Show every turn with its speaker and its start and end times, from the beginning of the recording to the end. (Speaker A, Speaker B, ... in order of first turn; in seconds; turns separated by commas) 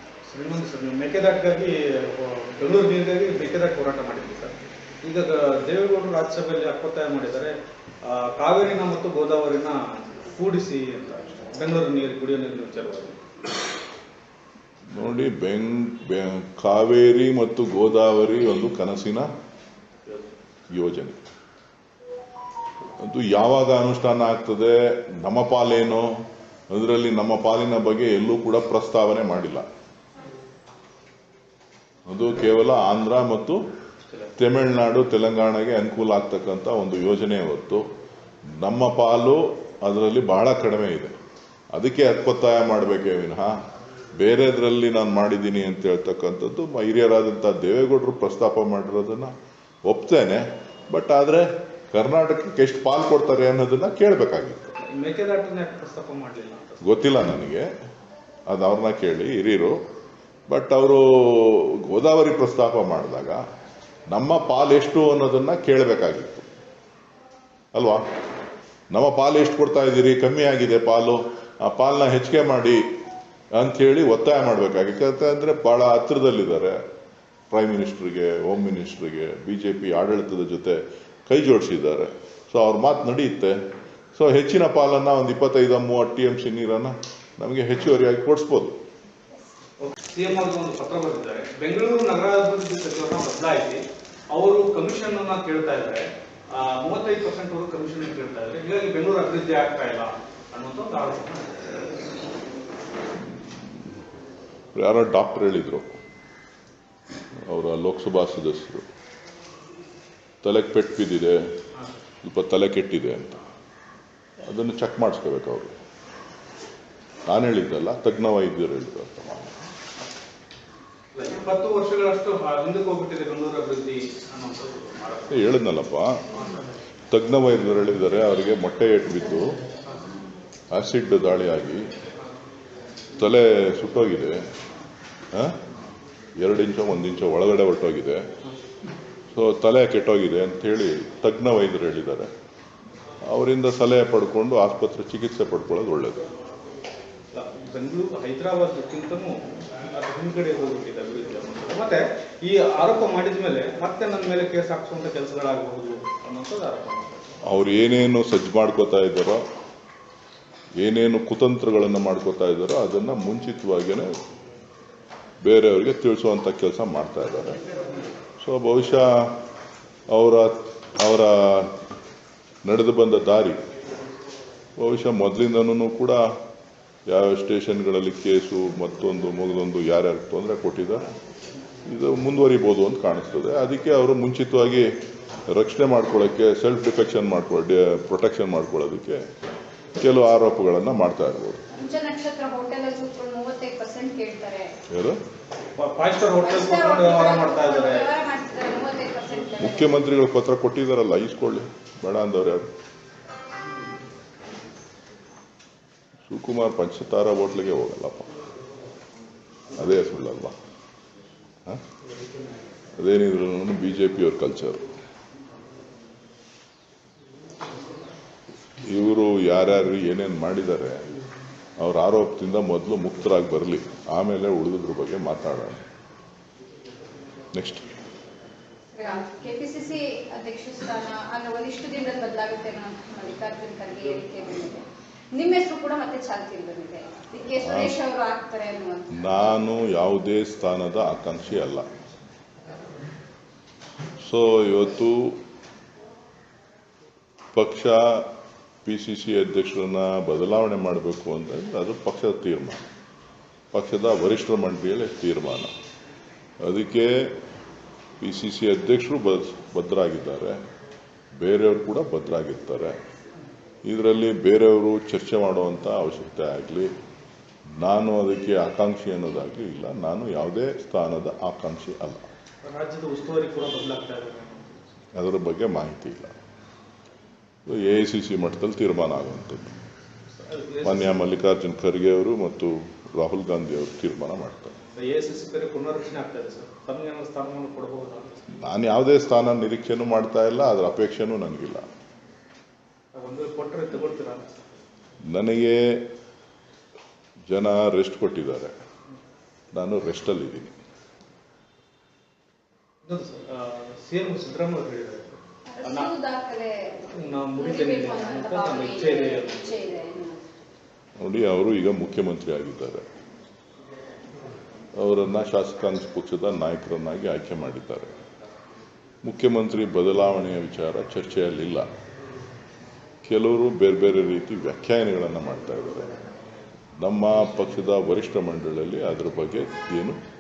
Speaker A: 0.3-13.2, Speaker B: 14.9-19.3, Speaker A: 20.1-20.3, Speaker B: 20.7-21.2, Speaker B: 23.0-29.6, Speaker B: 32.1-33.6, Speaker B: 34.4-37.9, Speaker B: 38.6-41.1, Speaker B: 41.7-43.6, Speaker B: 44.2-49.3, Speaker B: 49.9-54.8, Speaker A: 54.8-57.0, Speaker B: 56.8-57.7, Speaker B: 58.5-59.8, Speaker B: 60.5-63.4, Speaker B: 64.1-66.5, Speaker B: 67.7-68.1, Speaker B: 68.9-72.8, Speaker B: 73.5-76.8, Speaker B: 77.5-83.6, Speaker B: 84.2-88.8, Speaker A: 89.8-101.7, Speaker B: 104.7-106.0, Speaker B: 107.5-108.9, Speaker B: 110.4-111.4, Speaker B: 112.2-113.4, Speaker B: 114.5-115.7, Speaker B: 117.3-119.6, Speaker A: 121.2-125.4, Speaker B: 125.3-126.2, Speaker B: 127.1-129.6, Speaker B: 130.7-131.9, Speaker B: 133.2-134.4, Speaker B: 135.3-135.6, Speaker B: 136.4-138.2, Speaker B: 139.3-142.3, Speaker B: 143.3-146.3, Speaker A: 147.3-157.3, Speaker B: 157.4-159.4, Speaker B: 160.8-164.1, Speaker B: 165.4-167.6, Speaker B: 168.4-169.3, Speaker B: 170.1-171.7, Speaker B: 172.7-173.6, Speaker B: 174.8-176.3, Speaker B: 177.1-181.1, Speaker B: 181.9-184.9, Speaker B: 185.5-189.2, Speaker B: 190.0-191.6, Speaker C: 191.7-194.7, Speaker B: 194.9-195.2, Speaker A: 195.8-198.1, Speaker C: 196.4-200.0, Speaker B: 199.6-202.7, Speaker B: 206.3-208.3, Speaker B: 209.7-210.6, Speaker B: 213.0-214.8, Speaker B: 218.8-221.1, Speaker B: 221.8-225.8, Speaker B: 227.5-227.9, Speaker C: 229.0-239.3, Speaker B: 237.6-237.9, Speaker B: 239.2-241.9, Speaker B: 244.2-245.4, Speaker B: 247.5-248.3, Speaker B: 248.8-252.8, Speaker B: 253.7-255.7, Speaker B: 256.6-257.4, Speaker B: 258.2-260.6, Speaker B: 261.4-263.0, Speaker B: 263.9-266.9, Speaker B: 267.8-272.2, Speaker A: 272.6-275.0, Speaker B: 275.1-276.3, Speaker B: 277.7-279.8, Speaker A: 280.4-281.2, Speaker B: 280.8-284.7, Speaker A: 285.0-288.5, Speaker B: 288.6-291.9, Speaker A: 293.1-294.6, Speaker B: 295.3-296.0, Speaker B: 297.5-298.7, Speaker B: 299.7-300.8, Speaker A: 303.0-306.1, Speaker C: 305.7-310.4, Speaker A: 307.1-310.0, Speaker B: 311.2-313.1, Speaker B: 315.0-318.1, Speaker B: 319.2-321.9, Speaker B: 323.2-326.1, Speaker B: 327.0-330.2